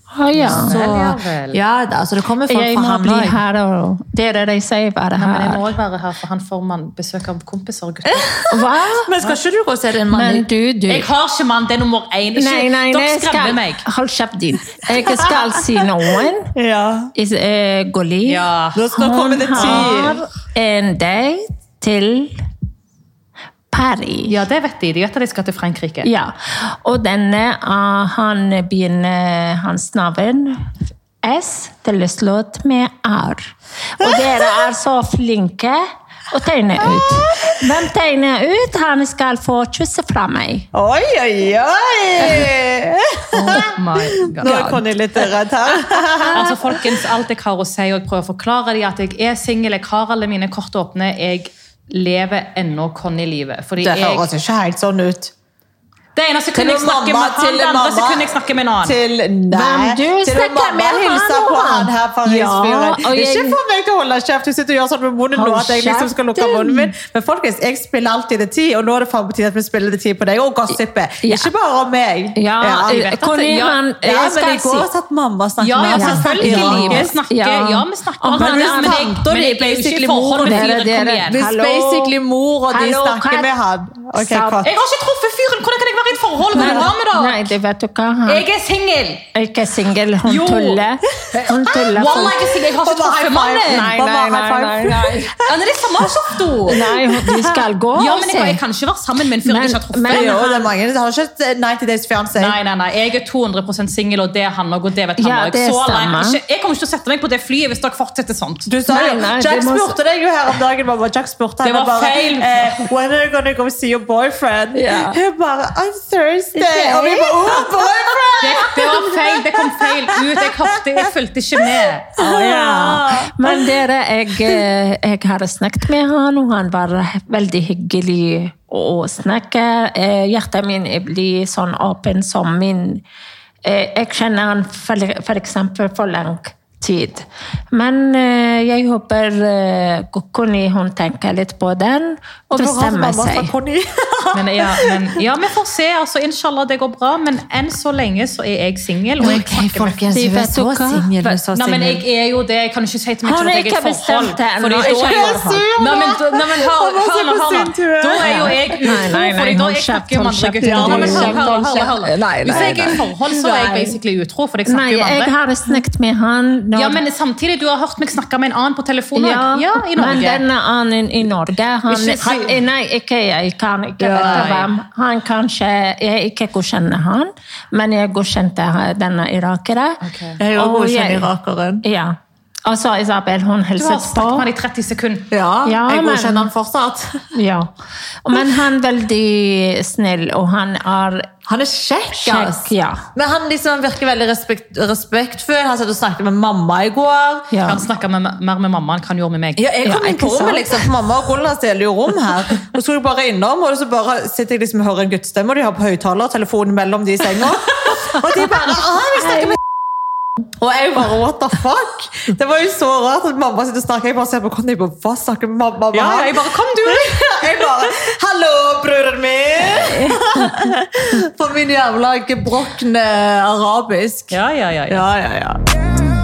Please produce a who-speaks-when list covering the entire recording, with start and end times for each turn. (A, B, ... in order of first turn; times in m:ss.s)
0:00.1-0:00.7 A
0:00.3-0:01.6 B
0:00.4-0:03.4 C
0:02.5-0:05.7 A
0:05.2-0:08.3 B
0:08.1-0:10.4 C
0:08.5-0:09.1 A
0:10.1-0:11.1 A
0:10.9-0:13.8 B
0:12.4-0:16.5 A
0:14.9-0:17.1 C
0:17.2-0:22.4 A
0:18.2-0:18.8 B
0:18.7-0:20.2 C
0:19.5-0:20.0 B
0:23.7-0:24.3 A
0:24.3-0:26.1 B
0:26.0-0:30.7 A
0:31.2-0:40.7 A
0:34.0-0:34.4 C
0:36.8-0:37.6 C
0:40.7-0:43.7 C
0:43.3-0:44.8 B
0:44.3-0:46.8 C
0:46.3-0:54.3 B
0:53.8-0:55.3 C
0:56.1-0:59.0 B
0:56.5-1:13.1 C
0:59.5-1:03.6 A
1:05.3-1:06.9 A
1:11.2-1:11.5 A
1:12.4-1:14.9 A
1:12.8-1:13.8 B
1:14.0-1:17.1 C
1:15.6-1:21.4 B
1:15.9-1:19.2 A
1:18.3-1:20.7 C
1:20.3-1:22.2 A
1:21.3-1:24.7 C
1:22.7-1:23.5 A
1:24.1-1:24.7 A
1:24.6-1:27.5 B
1:26.5-1:28.4 A
1:26.6-1:26.9 C
1:28.2-1:29.2 B
1:29.3-1:32.5 A
1:30.2-1:30.8 B
1:31.9-1:33.9 B
1:32.7-1:36.1 C
1:33.6-1:35.4 A
1:35.4-1:36.9 B
1:36.7-1:38.6 A
1:36.7-1:37.6 C
1:37.9-1:40.3 B
1:39.4-1:40.7 A
1:40.1-1:42.6 C
1:42.4-1:48.7 B
1:45.2-1:46.4 A
1:48.6-2:00.5 C
1:48.9-1:50.0 A
1:51.6-1:52.9 B
1:54.7-1:55.2 A
1:56.6-1:57.7 A
1:58.4-2:02.2 B
2:02.2-2:03.7 C
2:02.2-2:13.0 A
2:13.6-2:23.5 A
2:22.5-2:25.0 C
2:24.3-2:30.0 B
2:29.2-2:32.0 C
2:30.1-2:31.4 A
2:31.5-2:45.3 B
2:33.2-2:35.7 A
2:34.8-2:38.9 C
2:38.2-2:42.9 A
2:40.6-2:44.0 C
2:44.7-2:47.0 A
2:46.7-2:50.4 B
2:49.1-3:00.0 A
2:51.9-2:52.5 C
2:54.0-2:54.5 C
2:54.2-2:54.7 B
3:00.0-3:00.4 B
3:00.4-3:01.8 C
3:00.5-3:01.3 A
3:01.8-3:04.5 A
3:03.8-3:05.3 B
3:05.3-3:07.3 C
3:05.6-3:06.5 A
3:07.3-3:07.7 A
3:08.2-3:11.3 A
3:11.5-3:17.5 C
3:12.1-3:13.0 A
3:17.5-3:17.9 A
3:17.6-3:19.7 B
3:19.6-3:29.6 C
3:19.8-3:20.8 A
3:29.2-3:29.5 A
3:30.5-3:44.4 C
3:35.9-3:37.4 B
3:39.6-3:40.5 A
3:44.3-3:45.0 B
3:44.9-3:45.6 C